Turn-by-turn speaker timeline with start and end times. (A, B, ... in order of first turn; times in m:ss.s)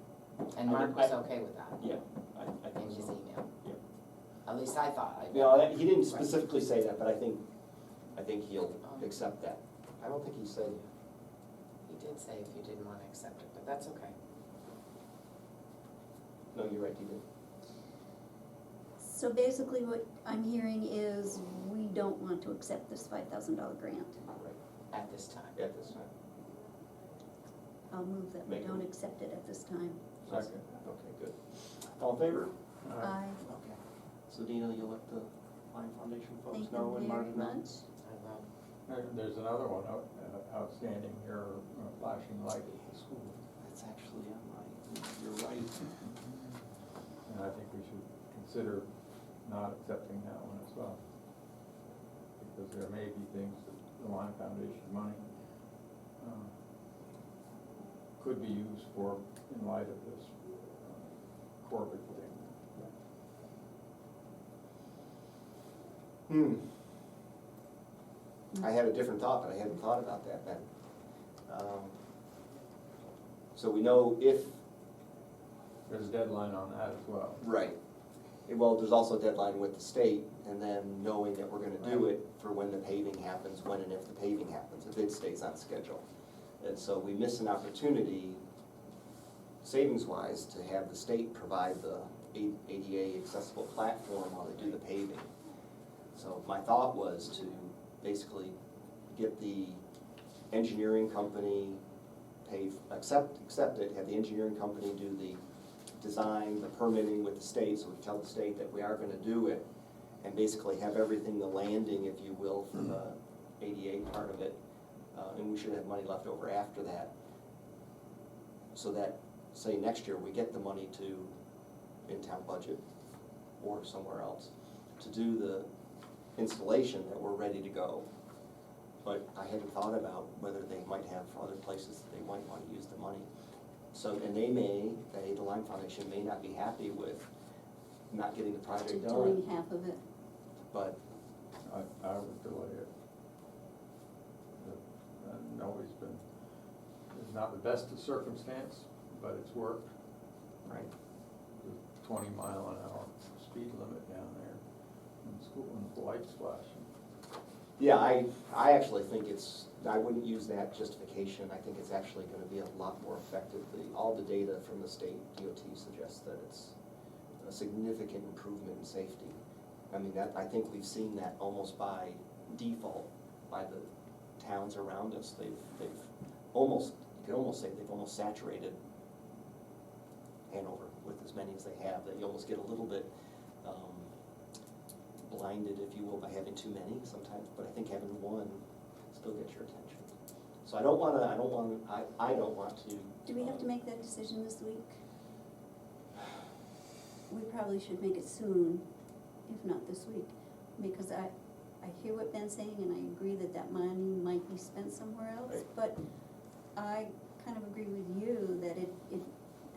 0:00.5-0:01.8 A
0:00.7-0:01.1 B
0:01.8-0:03.8 B
0:02.8-0:03.5 A
0:04.5-0:06.3 A
0:05.3-0:07.4 B
0:08.2-0:10.8 B
0:08.8-0:09.1 A
0:11.9-0:14.2 A
0:16.5-0:17.2 B
0:19.0-0:24.2 C
0:24.3-0:24.6 B
0:24.9-0:25.6 A
0:25.6-0:26.1 B
0:27.9-0:30.0 C
0:28.4-0:28.9 B
0:30.3-0:32.5 B
0:30.3-0:30.5 D
0:32.8-0:33.2 D
0:33.0-0:33.4 C
0:33.4-0:37.6 B
0:36.5-0:37.8 C
0:38.0-0:38.5 A
0:38.9-0:43.4 D
0:43.6-0:45.9 B
0:47.3-0:48.9 D
0:49.4-0:51.0 D
0:52.4-0:55.2 D
0:56.2-0:56.5 D
0:58.2-1:02.6 D
1:06.3-1:06.6 B
1:08.6-1:10.7 B
1:11.5-1:12.0 B
1:13.6-1:14.6 B
1:15.9-1:17.4 D
1:17.4-1:17.8 B
1:18.5-1:26.0 B
1:26.6-1:28.4 B
1:29.6-1:35.3 B
1:36.1-1:38.6 B
1:39.1-1:39.8 B
1:40.5-1:41.8 B
1:42.4-1:45.4 B
1:46.0-1:49.7 B
1:50.2-1:54.6 B
1:55.1-1:57.1 B
1:58.7-2:01.3 B
2:02.1-2:02.8 B
2:03.6-2:05.7 B
2:06.4-2:08.1 B
2:09.0-2:13.3 B
2:13.9-2:17.3 B
2:18.1-2:19.4 B
2:18.9-2:20.0 C
2:20.7-2:21.0 B
2:21.6-2:22.9 D
2:24.6-2:26.2 D
2:27.1-2:29.9 D
2:30.6-2:30.9 B
2:31.6-2:34.6 D
2:35.2-2:36.9 D
2:37.8-2:46.7 B
2:47.4-2:49.4 B
2:49.9-2:53.9 B
2:54.4-2:58.8 B
3:00.5-3:03.1 B
3:03.6-3:04.1 B
3:05.2-3:10.1 B
3:10.6-3:13.6 B
3:13.3-3:15.0 C
3:17.3-3:18.8 C
3:19.5-3:26.0 C
3:26.8-3:29.3 C